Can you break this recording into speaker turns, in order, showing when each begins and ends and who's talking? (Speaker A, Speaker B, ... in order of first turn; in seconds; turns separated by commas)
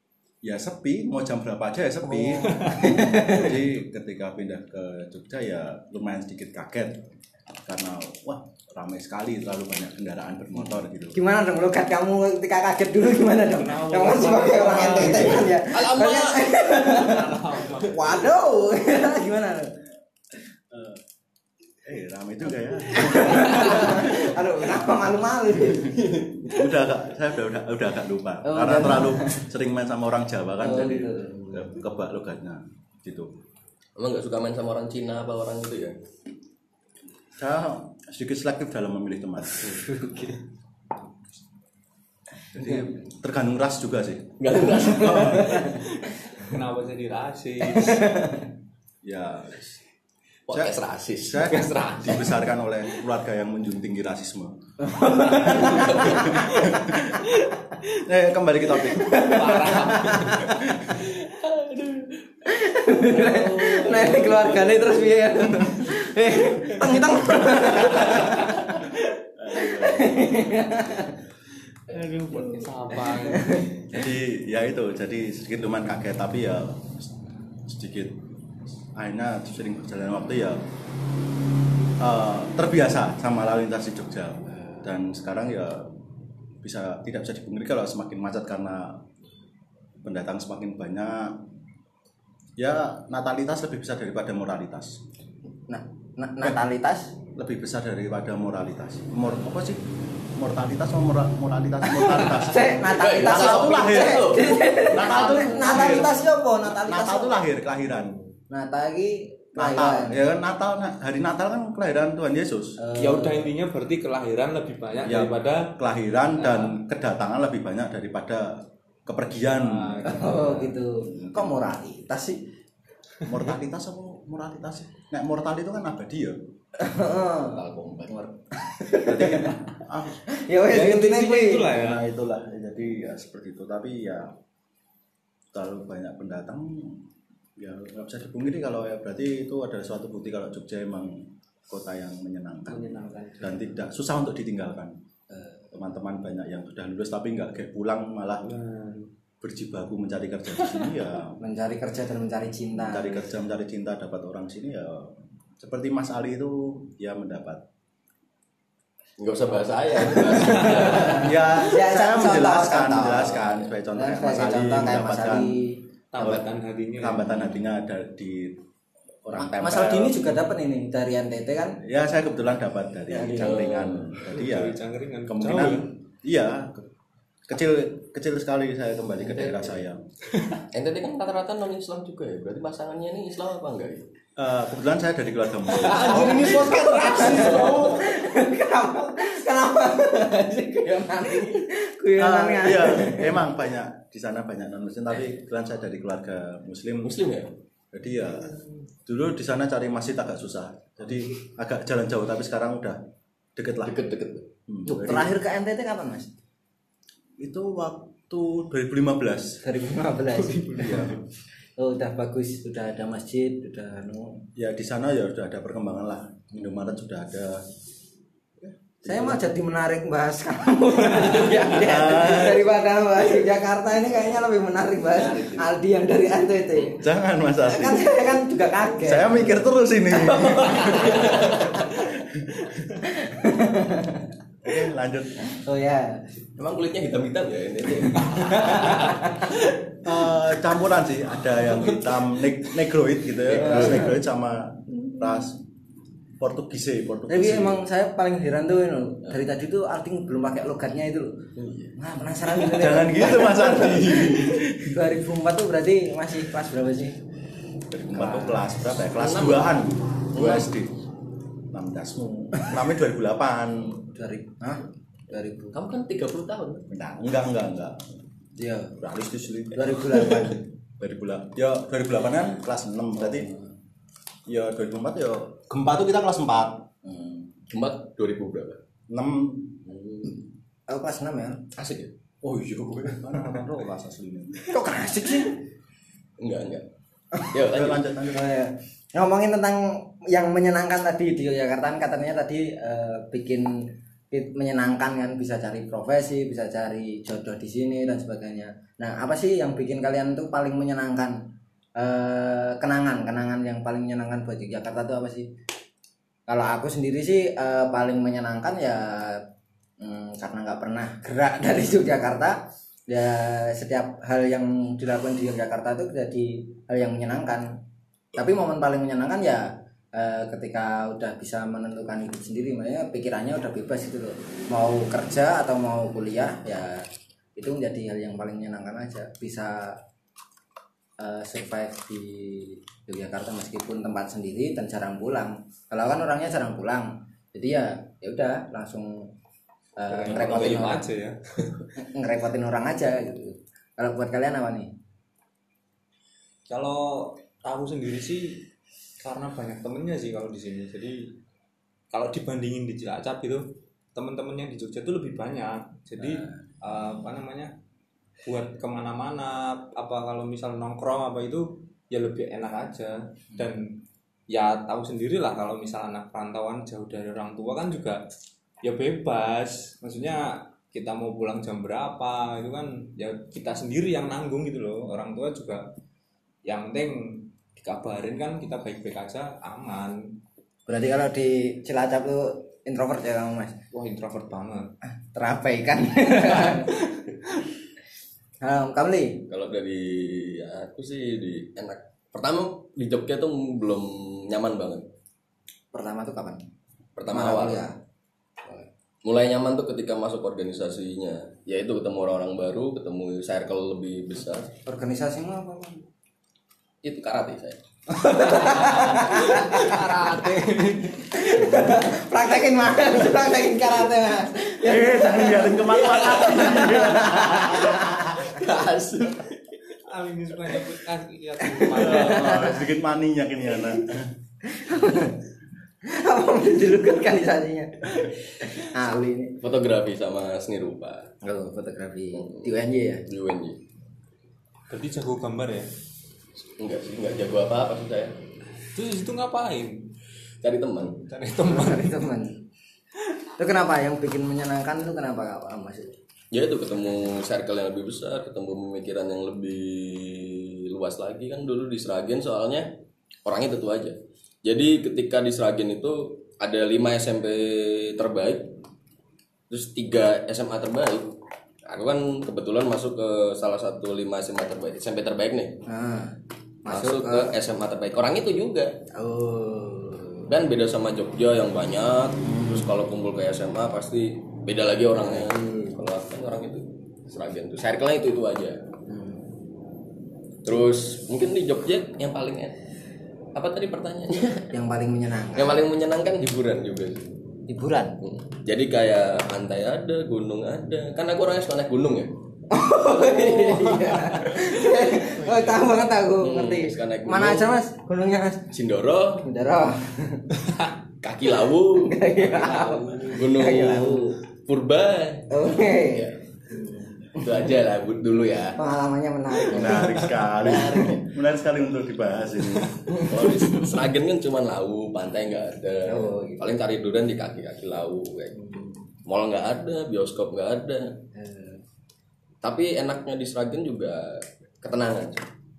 Speaker A: 0.4-7.0, Speaker B: 2.2-3.0, Speaker C: 2.7-3.5, Speaker A: 7.6-11.2, Speaker C: 11.1-19.8, Speaker B: 13.5-15.5, Speaker D: 15.0-16.5, Speaker B: 16.7-18.2, Speaker A: 20.7-21.0, Speaker A: 21.8-24.3, Speaker C: 22.9-26.1, Speaker A: 26.0-33.3, Speaker C: 28.4-29.4, Speaker C: 30.6-31.5, Speaker D: 34.0-36.0, Speaker A: 37.4-39.9, Speaker C: 39.6-40.4, Speaker A: 42.5-45.4, Speaker D: 44.4-45.9, Speaker C: 45.0-45.8, Speaker B: 46.4-48.1, Speaker C: 47.7-48.5, Speaker A: 49.0-49.8, Speaker D: 50.5-51.6, Speaker A: 50.5-57.3, Speaker B: 51.5-52.5, Speaker C: 54.8-56.6, Speaker D: 55.5-56.3, Speaker A: 57.8-59.3, Speaker C: 58.9-60.5, Speaker B: 59.1-60.5, Speaker A: 60.2-61.0, Speaker D: 61.4-62.2, Speaker C: 62.4-69.0, Speaker B: 63.1-64.7, Speaker D: 63.8-64.1, Speaker B: 66.5-67.0, Speaker A: 67.8-68.5, Speaker A: 69.4-70.7, Speaker C: 69.5-71.2, Speaker B: 71.9-73.8, Speaker C: 73.1-73.7, Speaker A: 73.9-77.1, Speaker A: 77.6-78.2, Speaker A: 78.9-80.6, Speaker A: 82.0-85.9, Speaker A: 86.6-89.0, Speaker A: 90.0-91.4, Speaker A: 92.6-95.0, Speaker C: 95.7-97.1, Speaker A: 97.4-106.2, Speaker C: 101.9-107.4, Speaker D: 102.9-105.0, Speaker B: 105.7-106.0, Speaker A: 106.7-108.2, Speaker C: 108.5-110.2, Speaker A: 109.5-112.8, Speaker C: 112.8-113.5, Speaker B: 113.0-115.8, Speaker A: 115.0-120.2, Speaker B: 116.3-116.8, Speaker B: 119.5-120.8, Speaker C: 120.0-122.5, Speaker A: 121.0-121.5, Speaker A: 123.2-126.4, Speaker C: 126.8-129.6, Speaker D: 127.4-128.2, Speaker A: 129.0-130.2, Speaker C: 130.3-131.7, Speaker B: 130.7-132.0, Speaker A: 131.7-134.3, Speaker A: 135.5-137.0, Speaker A: 137.6-145.0, Speaker B: 142.7-143.8, Speaker C: 145.3-145.6, Speaker A: 145.7-148.5, Speaker B: 148.4-149.1, Speaker A: 149.4-151.4, Speaker C: 151.4-153.3, Speaker A: 152.8-157.6, Speaker D: 159.2-161.4, Speaker C: 160.6-165.8, Speaker A: 160.7-165.6, Speaker B: 166.1-167.6, Speaker A: 166.2-166.4, Speaker A: 167.0-168.6, Speaker A: 169.2-170.2, Speaker C: 169.3-171.8, Speaker A: 171.8-176.8, Speaker C: 173.1-173.7, Speaker D: 173.3-174.2, Speaker B: 174.3-175.9, Speaker A: 177.5-180.0, Speaker D: 179.3-179.8, Speaker D: 180.7-184.1, Speaker A: 184.4-188.1, Speaker D: 185.7-188.1, Speaker B: 186.0-186.9, Speaker C: 186.0-193.4, Speaker A: 192.2-197.2, Speaker D: 197.0-197.5, Speaker A: 197.9-203.0, Speaker A: 203.6-204.0, Speaker D: 203.8-204.5, Speaker A: 204.7-205.3, Speaker C: 204.9-206.3, Speaker A: 207.4-209.6, Speaker C: 209.6-211.1, Speaker B: 210.3-211.2, Speaker A: 210.8-211.2, Speaker C: 211.8-214.4, Speaker A: 214.5-217.6, Speaker A: 218.6-219.4, Speaker C: 219.0-227.0, Speaker A: 221.6-222.7, Speaker D: 225.1-225.7, Speaker A: 226.9-228.2, Speaker C: 227.6-229.6, Speaker A: 228.9-232.7, Speaker C: 230.2-231.6, Speaker D: 230.8-231.9, Speaker C: 233.0-234.3, Speaker A: 234.6-235.4, Speaker C: 235.4-236.2, Speaker D: 236.6-239.5, Speaker C: 238.0-239.5, Speaker A: 240.0-245.6, Speaker D: 243.4-244.1, Speaker C: 243.6-244.1, Speaker A: 246.4-247.8, Speaker C: 247.3-251.4, Speaker D: 251.6-251.9, Speaker C: 252.0-257.2, Speaker A: 252.6-255.0, Speaker A: 257.9-261.0, Speaker D: 259.0-259.8, Speaker D: 260.3-260.7, Speaker A: 261.7-264.1, Speaker C: 264.1-265.8, Speaker D: 265.7-266.9, Speaker A: 266.9-268.2, Speaker C: 268.6-269.0, Speaker A: 269.0-273.5, Speaker C: 269.8-270.6, Speaker A: 274.5-277.3, Speaker D: 277.7-278.8, Speaker A: 279.1-279.9, Speaker D: 279.9-280.4, Speaker C: 280.9-281.6, Speaker D: 281.8-282.1, Speaker A: 282.4-284.8, Speaker C: 284.7-285.6, Speaker D: 286.4-286.9, Speaker D: 287.5-288.0, Speaker A: 287.6-288.5, Speaker C: 288.3-301.4, Speaker C: 302.0-305.5, Speaker C: 306.5-309.4, Speaker C: 310.0-317.8, Speaker C: 318.3-330.0, Speaker C: 331.2-339.3, Speaker C: 340.0-341.1, Speaker B: 340.1-341.8, Speaker D: 340.3-341.0, Speaker C: 342.0-344.9, Speaker B: 346.7-348.6, Speaker B: 349.2-351.3, Speaker B: 352.1-357.7, Speaker B: 358.4-368.2, Speaker B: 368.8-375.9, Speaker B: 376.6-380.3, Speaker C: 380.9-383.8, Speaker B: 383.9-384.9, Speaker C: 385.3-386.9, Speaker C: 388.6-389.5, Speaker D: 389.5-395.1, Speaker C: 395.9-396.6, Speaker D: 397.1-397.9, Speaker C: 397.3-397.9, Speaker D: 399.2-404.7, Speaker C: 404.8-406.0, Speaker D: 407.0-407.8, Speaker C: 408.1-410.0, Speaker B: 408.7-411.6, Speaker C: 411.3-418.5, Speaker A: 414.8-418.5, Speaker D: 416.0-419.8, Speaker B: 420.0-422.7, Speaker C: 421.6-422.8, Speaker A: 421.9-424.3, Speaker C: 424.6-425.4, Speaker C: 426.0-429.6, Speaker D: 429.6-431.3, Speaker C: 431.4-433.2, Speaker D: 432.3-432.7, Speaker D: 433.2-433.8, Speaker B: 434.9-435.9, Speaker D: 436.8-438.4, Speaker B: 438.9-440.1, Speaker D: 440.6-441.2, Speaker B: 441.2-442.3, Speaker C: 441.6-442.6, Speaker C: 443.4-446.1, Speaker D: 446.5-452.9, Speaker D: 453.4-458.7, Speaker D: 459.7-461.3, Speaker D: 461.9-465.8, Speaker C: 465.9-467.5, Speaker D: 466.9-469.0, Speaker C: 469.1-470.5, Speaker D: 470.5-478.8, Speaker C: 472.4-472.9, Speaker C: 475.2-475.9, Speaker C: 479.1-479.4, Speaker D: 480.6-482.8, Speaker D: 483.5-484.7, Speaker C: 484.7-485.9, Speaker D: 485.5-487.3, Speaker C: 487.7-488.2, Speaker D: 488.2-492.3, Speaker C: 492.7-498.7, Speaker D: 493.2-495.8, Speaker D: 496.4-497.7, Speaker D: 498.7-499.4, Speaker C: 499.4-500.5, Speaker D: 501.2-506.4, Speaker C: 502.0-504.4, Speaker B: 502.5-503.3, Speaker C: 505.5-507.6, Speaker D: 507.3-508.8, Speaker C: 508.8-510.4, Speaker A: 509.7-513.9, Speaker D: 510.5-511.2, Speaker C: 513.1-513.5, Speaker D: 513.1-521.2, Speaker C: 516.1-516.7, Speaker C: 521.3-521.8, Speaker D: 522.6-525.5